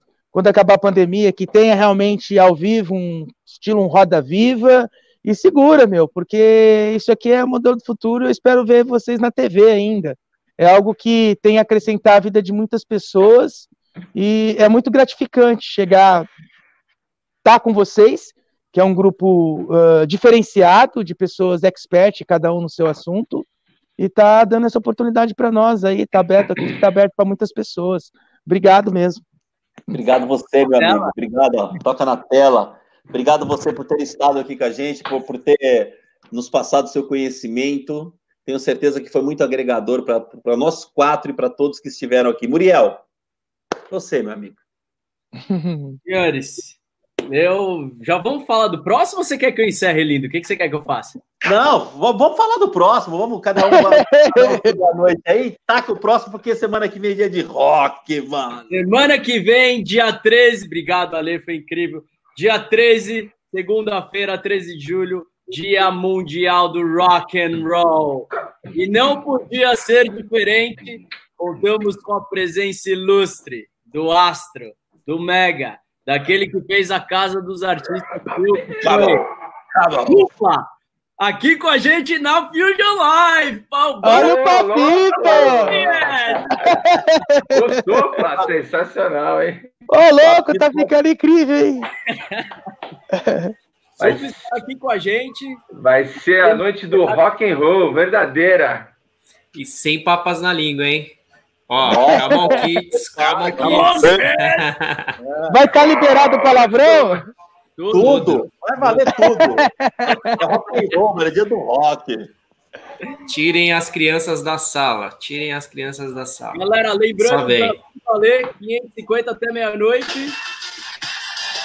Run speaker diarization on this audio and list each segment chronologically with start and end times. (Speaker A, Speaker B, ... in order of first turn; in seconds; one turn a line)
Speaker A: 0.3-16.3
Speaker A: 17.4-23.5
Speaker A: 24.0-29.2
Speaker B: 29.9-43.0
Speaker C: 30.7-31.1
Speaker B: 43.9-44.6
Speaker A: 45.4-46.0
Speaker C: 46.0-46.8
Speaker C: 47.3-51.2
Speaker B: 51.4-58.7
Speaker A: 53.6-54.8
Speaker C: 58.7-79.2
Speaker D: 78.3-78.8
Speaker B: 78.8-80.2
Speaker C: 80.1-80.7
Speaker C: 81.2-84.5
Speaker A: 84.0-85.7
Speaker D: 84.1-85.7
Speaker C: 85.2-86.5
Speaker B: 85.3-86.9
Speaker A: 86.8-87.8
Speaker D: 87.5-89.7
Speaker A: 89.9-91.9
Speaker B: 90.2-90.9
Speaker C: 92.1-92.5
Speaker A: 93.1-93.5
Speaker D: 94.0-94.4
Speaker C: 94.0-95.6
Speaker D: 95.7-98.9
Speaker C: 96.4-97.2
Speaker E: 99.5-101.2
Speaker E: 101.7-105.1
Speaker B: 101.8-104.2
Speaker A: 102.3-102.6
Speaker C: 103.6-104.6
Speaker B: 105.2-105.6
Speaker A: 105.5-107.2
Speaker D: 106.5-107.1
Speaker C: 107.8-109.0
Speaker B: 107.9-109.7
Speaker A: 109.2-110.4
Speaker B: 110.4-112.3
Speaker E: 113.3-116.6
Speaker C: 116.5-120.3
Speaker E: 117.2-117.8